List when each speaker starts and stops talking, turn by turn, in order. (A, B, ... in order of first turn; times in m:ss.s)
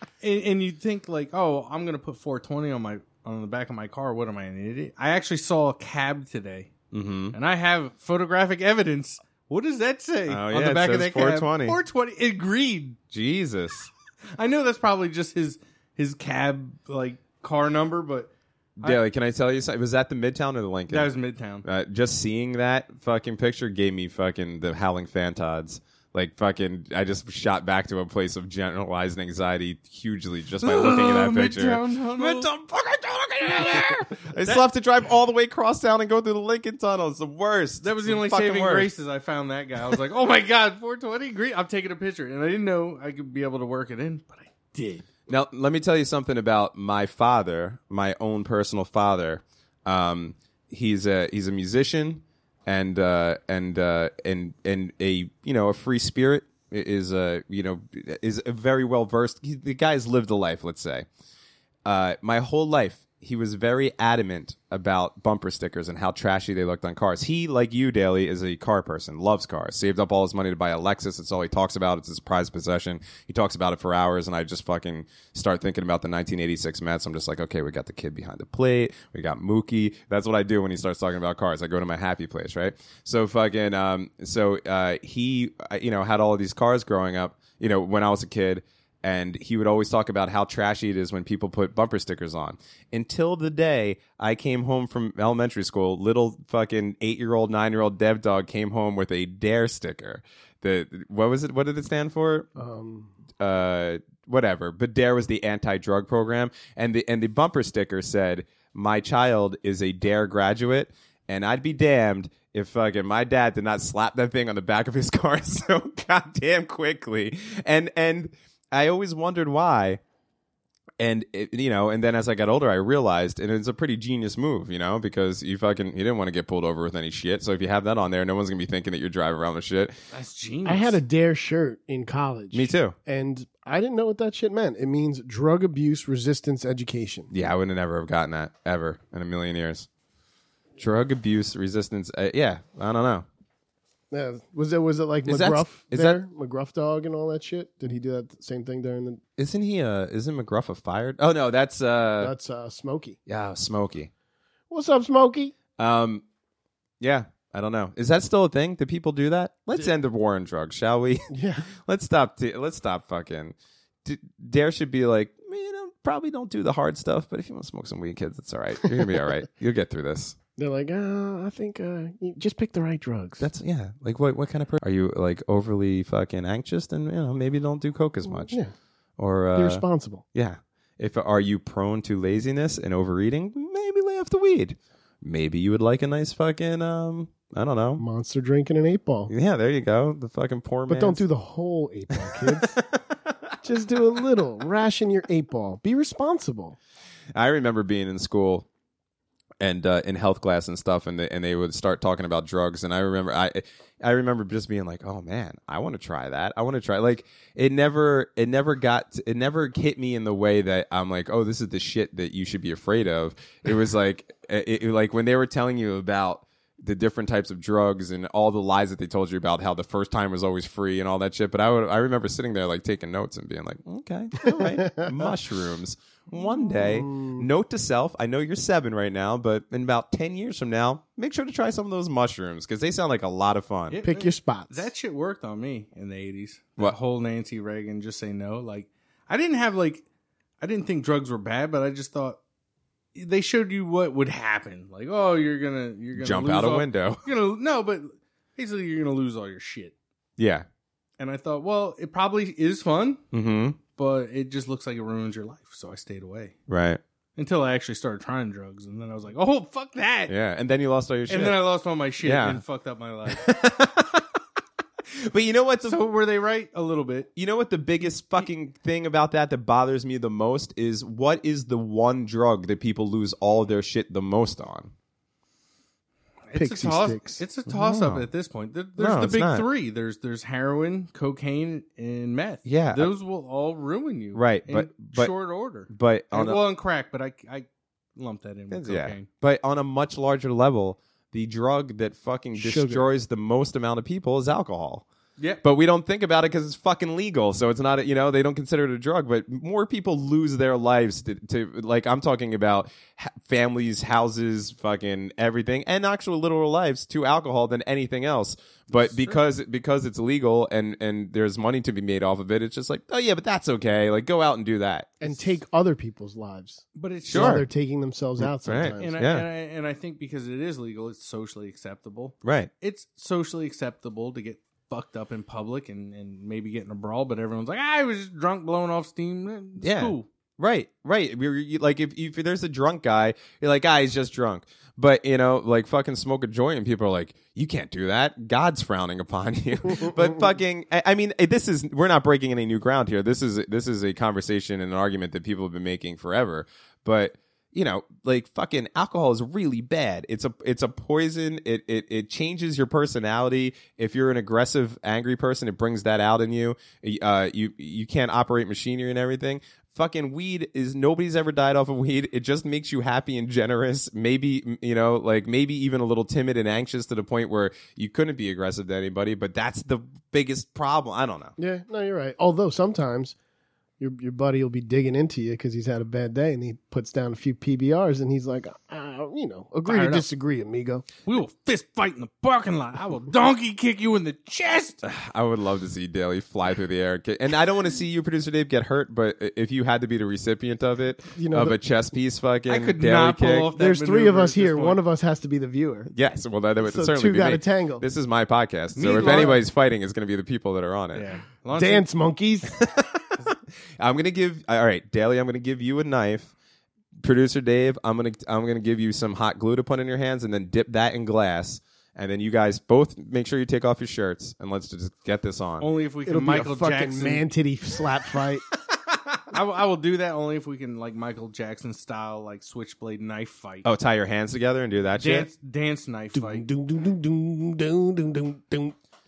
0:00.2-0:06.7 A
0:06.9-0:07.4 B
0:07.3-0:13.0 A
0:10.3-0:11.8 B
0:13.1-0:13.9 B
0:14.4-0:18.3 A
0:18.8-0:21.1 B
0:20.9-0:21.6 A
0:21.6-0:38.9 B
0:30.6-0:32.5 A
0:33.5-0:34.6 A
0:37.8-0:45.0 A
0:45.3-1:01.0 B
1:01.8-1:42.5 B
1:42.6-1:43.1 C
1:43.4-2:00.0 B
2:01.0-2:09.9 B
2:10.1-2:11.0 A
2:10.6-2:17.3 C
2:12.5-2:12.9 B
2:17.3-2:19.9 B
2:20.8-2:23.2 B
2:24.1-2:29.2 C
2:25.3-2:26.2 B
2:29.4-2:32.3 B
2:32.2-2:33.2 C
2:33.3-2:34.1 B
2:34.7-2:35.5 C
2:35.8-2:36.2 B
2:37.0-2:50.4 B
2:41.3-2:41.7 C
2:50.6-2:53.5 C
2:53.4-2:58.6 B
2:58.3-2:58.7 C
2:59.2-3:08.0 B
2:59.5-3:00.2 C
3:08.0-3:09.3 C
3:09.3-3:11.2 B
3:10.9-3:12.8 C
3:12.2-3:13.3 B
3:13.6-3:16.8 C
3:17.3-3:18.7 B
3:19.6-3:54.0 B
3:44.4-3:45.1 C
3:46.5-3:47.4 C
3:53.9-4:00.0 A
3:54.0-3:54.9 C
4:00.6-4:02.4 A
4:03.1-4:09.9 A
4:06.1-4:07.2 B
4:10.4-4:10.6 B
4:11.2-4:13.2 A
4:13.3-4:13.8 B
4:14.0-4:16.5 A
4:16.7-4:17.0 B
4:17.4-4:20.3 A
4:20.3-4:21.6 B
4:21.3-4:23.5 A
4:22.2-4:22.6 B
4:23.3-4:24.2 B
4:25.1-4:26.0 B
4:25.8-4:27.3 A
4:27.4-4:34.9 B
4:36.5-4:49.3 A
4:36.5-4:37.4 C
4:37.7-4:38.3 B
4:39.0-4:39.7 B
4:42.6-4:43.1 B
4:44.3-4:45.3 B
4:45.9-4:46.6 B
4:48.7-4:55.0 B
4:52.5-4:53.0 C
4:55.6-5:15.3 B
5:08.9-5:09.4 A
5:15.2-5:19.2 C
5:17.0-5:17.6 A
5:17.3-5:17.6 B
5:18.4-5:19.4 B
5:19.0-5:30.2 A
5:22.4-5:22.7 B
5:29.8-6:11.5 B
6:11.6-6:13.3 C
6:14.0-6:21.0 C
6:19.8-6:20.2 A
6:21.2-6:25.0 A
6:25.0-6:33.7 B
6:31.3-6:31.8 C
6:32.7-6:35.0 A
6:33.8-6:36.1 C
6:36.1-6:41.3 B
6:36.8-6:38.0 C
6:39.0-6:39.6 A
6:39.2-6:39.5 C
6:41.1-6:42.0 A
6:41.7-6:42.8 C
6:42.8-6:43.2 B
6:44.0-6:46.5 B
6:47.2-6:55.9 B
6:55.8-6:57.4 A
6:56.2-6:58.6 C
6:59.5-7:03.8 A
7:03.8-7:05.5 B
7:05.2-7:06.6 A
7:06.3-7:08.9 C